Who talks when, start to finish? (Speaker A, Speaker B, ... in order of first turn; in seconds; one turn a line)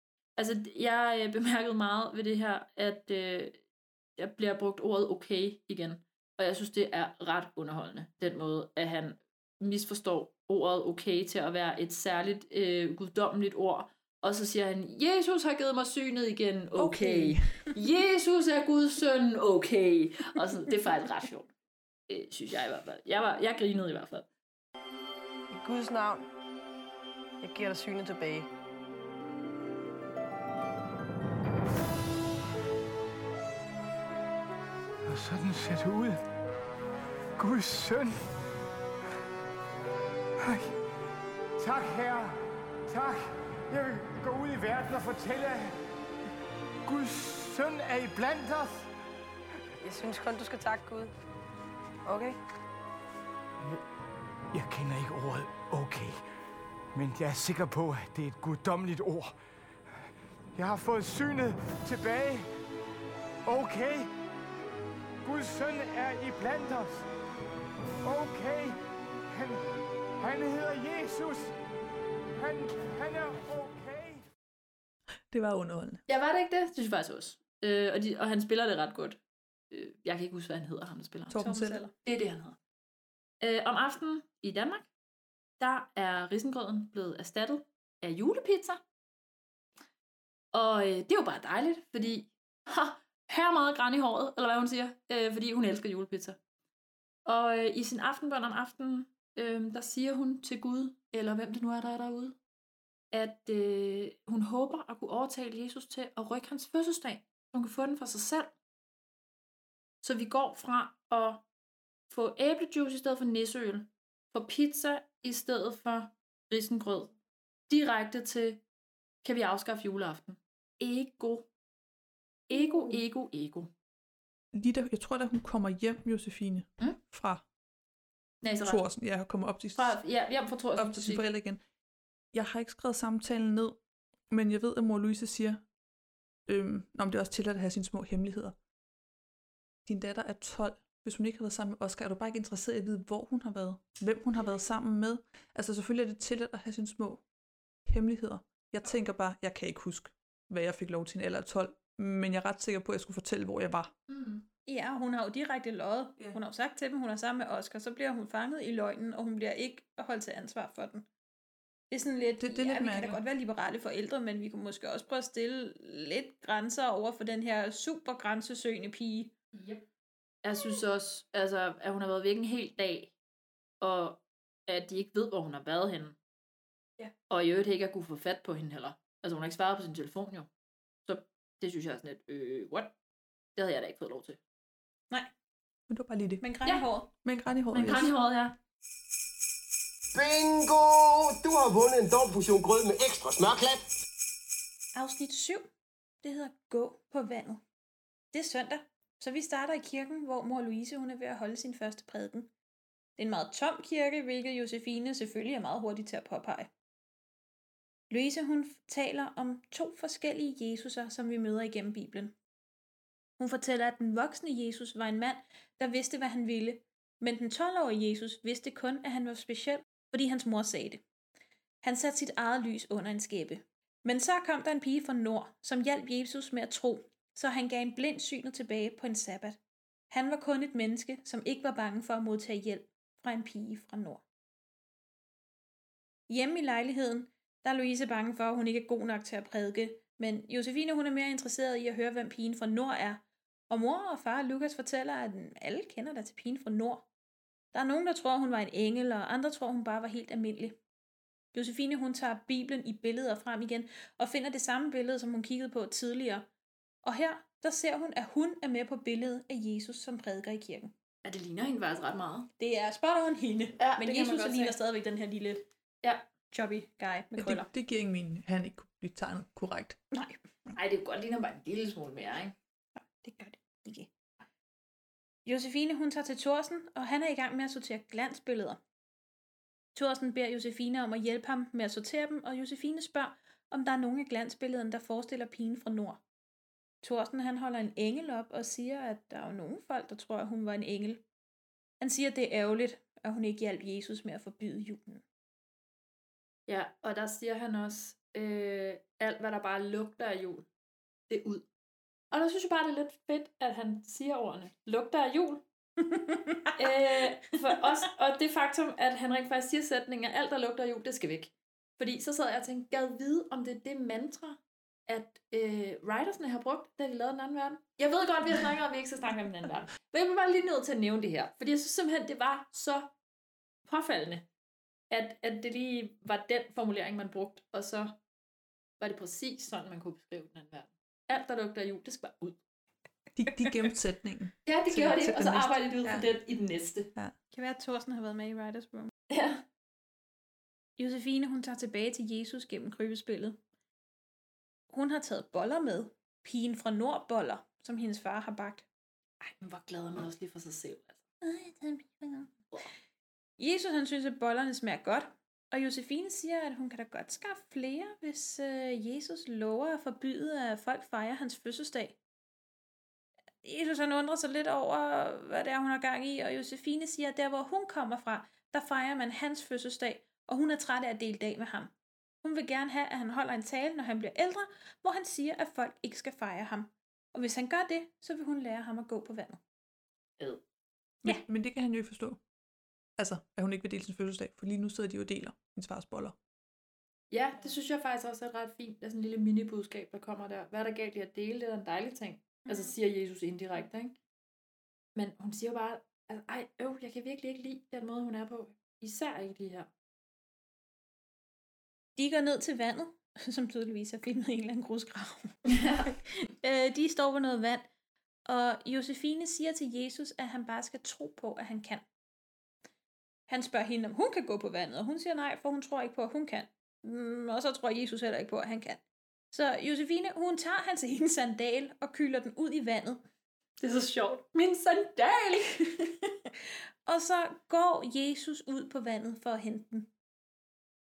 Speaker A: 0.4-3.6
Speaker A: 4.2-21.5
Speaker B: 16.8-17.5
Speaker A: 22.1-24.3
Speaker C: 25.5-26.3
Speaker C: 27.4-28.5
Speaker D: 35.0-36.2
Speaker D: 37.4-38.3
Speaker D: 40.4-40.8
Speaker D: 41.6-45.8
Speaker D: 46.8-48.9
Speaker C: 49.8-51.1
Speaker C: 52.0-52.4
Speaker D: 54.5-56.2
Speaker D: 56.9-59.3
Speaker D: 60.5-62.5
Speaker D: 63.5-64.1
Speaker D: 65.2-67.1
Speaker D: 68.0-68.8
Speaker D: 69.3-69.7
Speaker D: 70.2-71.5
Speaker D: 72.3-74.2
Speaker B: 75.3-76.0
Speaker A: 76.1-79.2
Speaker A: 79.7-82.6
Speaker B: 81.3-81.8
Speaker E: 81.4-81.9
Speaker A: 83.4-84.9
Speaker A: 85.6-88.8
Speaker A: 90.5-96.4
Speaker A: 97.2-102.3
Speaker A: 103.1-108.5
Speaker A: 110.0-111.4
Speaker A: 112.1-117.1
Speaker A: 117.7-118.6
Speaker A: 119.2-121.5
Speaker A: 122.5-123.7
Speaker B: 124.5-127.4
Speaker A: 128.4-128.8
Speaker B: 128.6-130.0
Speaker A: 129.8-131.2
Speaker B: 130.8-131.6
Speaker B: 132.3-133.8
Speaker B: 134.3-135.6
Speaker B: 136.5-138.6
Speaker B: 139.8-147.2
Speaker B: 147.8-153.9
Speaker A: 154.1-154.4
Speaker E: 154.7-161.0
Speaker E: 161.9-169.3
Speaker B: 162.4-163.2
Speaker A: 169.5-169.8
Speaker A: 170.4-173.1
Speaker A: 173.8-176.1
Speaker A: 177.0-180.5
Speaker A: 181.0-182.9
Speaker A: 183.6-184.4
Speaker B: 185.9-186.4
Speaker E: 186.4-187.1
Speaker B: 187.2-188.1
Speaker A: 187.7-188.6
Speaker F: 190.1-193.9
Speaker E: 194.9-195.7
Speaker E: 196.2-197.6
Speaker E: 198.3-202.5
Speaker E: 203.2-206.7
Speaker E: 208.1-212.3
Speaker E: 213.4-221.0
Speaker E: 221.8-229.6
Speaker E: 230.1-234.2
Speaker E: 236.3-247.1
Speaker E: 247.7-250.8
Speaker E: 251.5-256.4
Speaker E: 257.0-260.9
Speaker A: 261.2-262.5
Speaker E: 262.6-265.6
Speaker A: 263.8-264.8
Speaker A: 266.0-266.3
Speaker E: 266.5-267.7
Speaker B: 267.4-270.0
Speaker E: 270.1-270.4
Speaker A: 270.8-272.5
Speaker E: 273.0-274.1
Speaker E: 275.4-278.8
Speaker E: 279.9-286.2
Speaker E: 287.0-291.2
Speaker E: 292.0-295.2
Speaker A: 296.7-300.6
Speaker A: 301.3-301.6
Speaker A: 302.3-305.6
Speaker E: 306.0-306.8
Speaker A: 306.8-323.1
Speaker A: 323.9-324.4
Speaker A: 325.1-328.1
Speaker A: 329.0-332.6
Speaker B: 333.3-336.3
Speaker A: 334.6-337.1
Speaker E: 337.5-339.1
Speaker A: 339.3-339.6
Speaker E: 341.0-343.6
Speaker E: 344.9-348.9
Speaker A: 349.4-351.2
Speaker E: 351.4-352.5
Speaker E: 353.6-362.1
Speaker E: 363.6-371.9
Speaker E: 372.4-379.6
Speaker B: 381.2-382.4
Speaker B: 383.2-386.4
Speaker A: 387.3-394.1
Speaker E: 392.7-392.9
Speaker A: 395.1-399.9
Speaker E: 402.1-405.6
Speaker A: 405.6-406.1
Speaker E: 406.4-407.9
Speaker E: 408.5-412.0
Speaker E: 413.5-423.2
Speaker A: 423.8-425.9
Speaker E: 427.1-430.1